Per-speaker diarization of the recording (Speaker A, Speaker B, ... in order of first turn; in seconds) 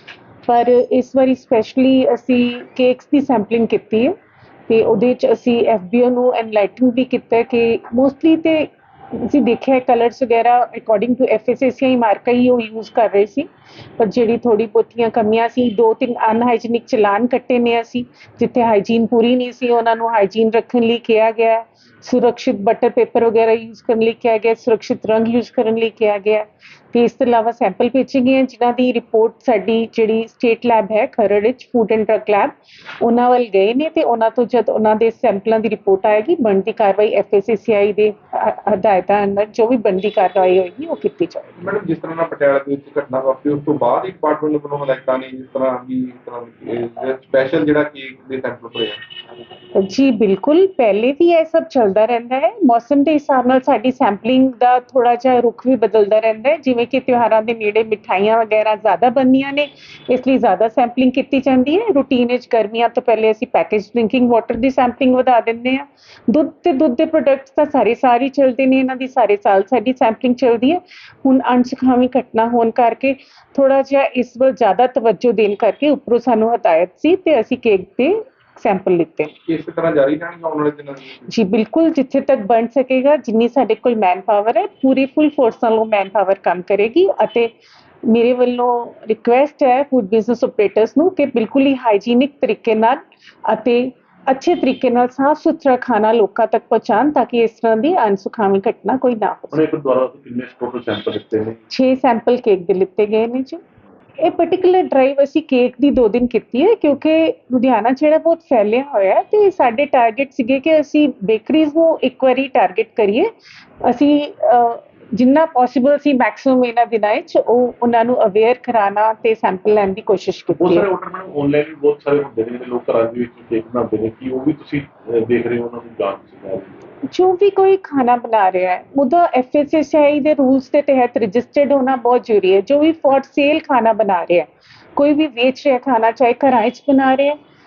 Speaker A: 0.5-4.2, 4.7-41.5, 49.8-79.3, 81.3-87.5, 88.1-99.7, 101.7-103.6, 104.2-113.3, 113.9-120.9, 127.1-137.4
Speaker B: 41.6-49.0, 79.5-81.2
Speaker C: 99.5-101.6, 120.5-126.8